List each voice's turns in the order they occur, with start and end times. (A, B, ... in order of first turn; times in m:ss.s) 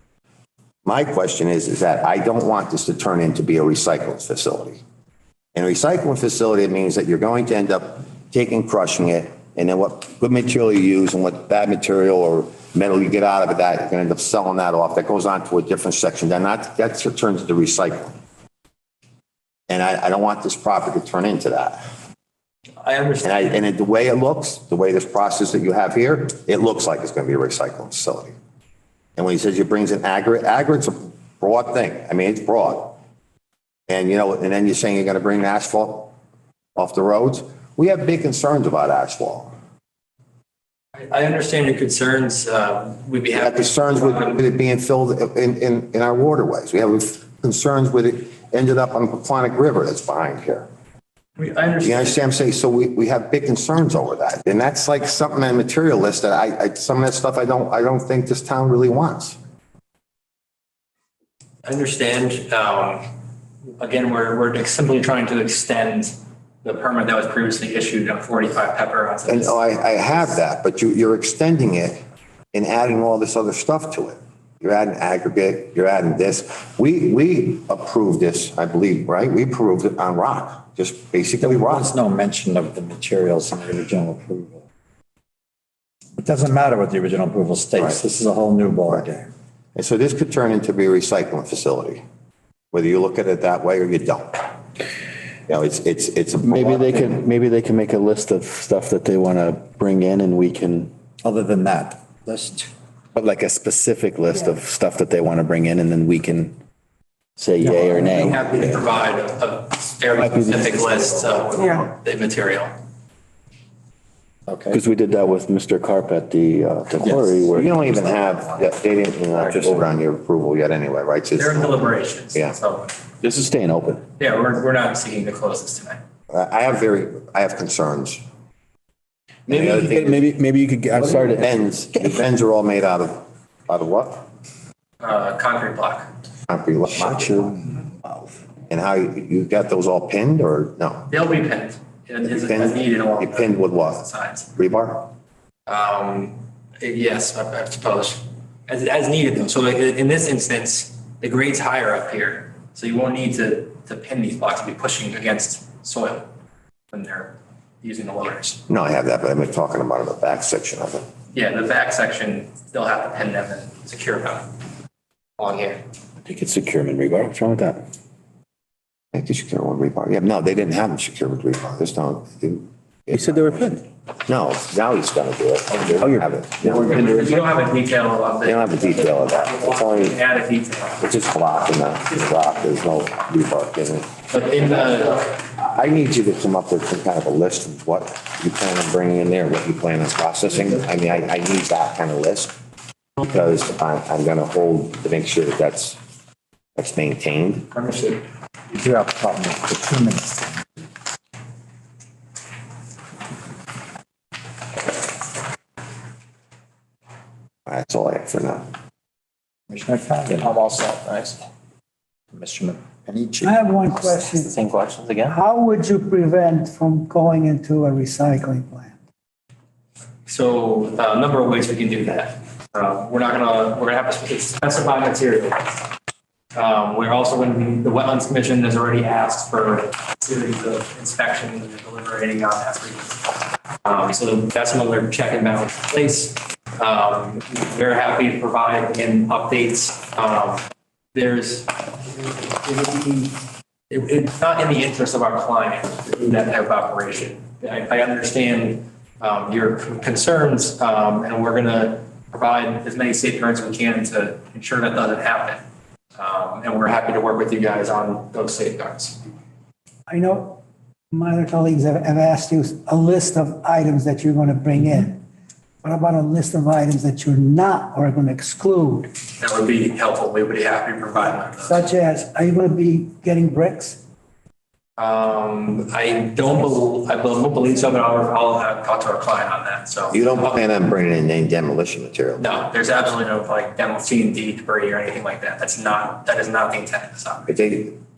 0:00.8-0:04.8 A
0:05.5-0:18.1 A
0:19.7-0:21.8 A
0:22.8-0:23.6 B
0:23.2-0:28.3 A
0:29.2-0:33.0 A
0:33.9-0:36.1 A
0:36.8-0:39.5 A
0:40.9-0:44.4 B
0:43.3-0:50.7 A
0:51.4-0:52.2 B
0:51.8-0:59.4 A
1:01.6-1:03.0 B
1:03.8-1:09.6 B
1:09.2-1:12.0 A
1:12.5-1:21.9 A
1:21.4-1:24.6 C
1:26.2-1:29.3 C
1:29.7-1:32.0 A
1:32.7-1:34.4 A
1:35.5-1:37.2 A
1:36.4-1:40.9 D
1:41.2-1:42.7 C
1:43.1-1:46.6 D
1:47.4-1:48.6 D
1:47.6-1:48.7 C
1:48.0-1:52.7 B
1:50.2-1:50.7 D
1:54.5-1:54.8 C
1:54.7-1:57.7 D
1:57.0-1:58.7 C
1:57.5-2:02.6 A
2:01.4-2:02.9 B
2:03.2-2:04.0 D
2:04.2-2:06.0 B
2:06.3-2:08.2 A
2:09.5-2:10.2 A
2:09.5-2:11.6 D
2:11.0-2:14.3 A
2:15.0-2:16.1 B
2:16.5-2:17.7 A
2:18.7-2:21.1 A
2:21.1-2:24.5 B
2:22.2-2:25.1 A
2:25.7-2:36.3 B
2:36.9-2:38.6 B
2:38.7-2:41.0 A
2:41.3-2:44.5 B
2:45.4-2:45.8 B
2:46.2-2:47.8 D
2:49.1-2:57.1 A
2:53.1-2:53.8 D
2:55.9-2:57.4 D
2:56.7-3:01.0 B
2:58.4-3:00.2 A
3:01.0-3:04.1 A
3:04.3-3:05.3 B
3:05.0-3:12.5 A
3:13.2-3:16.0 A
3:16.8-3:17.7 A
3:17.7-3:18.2 B
3:18.7-3:20.6 C
3:27.7-3:28.7 A
3:29.7-3:30.8 C
3:30.6-3:31.4 D
3:32.3-3:34.2 C
3:33.4-3:34.6 E
3:34.3-3:35.4 D
3:35.3-3:38.9 E
3:40.3-3:45.8 B
3:46.5-4:00.6 B
4:01.1-4:15.6 B
4:16.2-4:19.2 B
4:20.1-4:20.6 E
4:21.1-4:25.2 E
4:25.8-4:29.1 E
4:29.4-4:31.8 B
4:31.6-4:34.0 E
4:35.0-4:40.5 B
4:40.1-4:42.6 A
4:42.4-4:47.5 B
4:47.5-4:48.0 A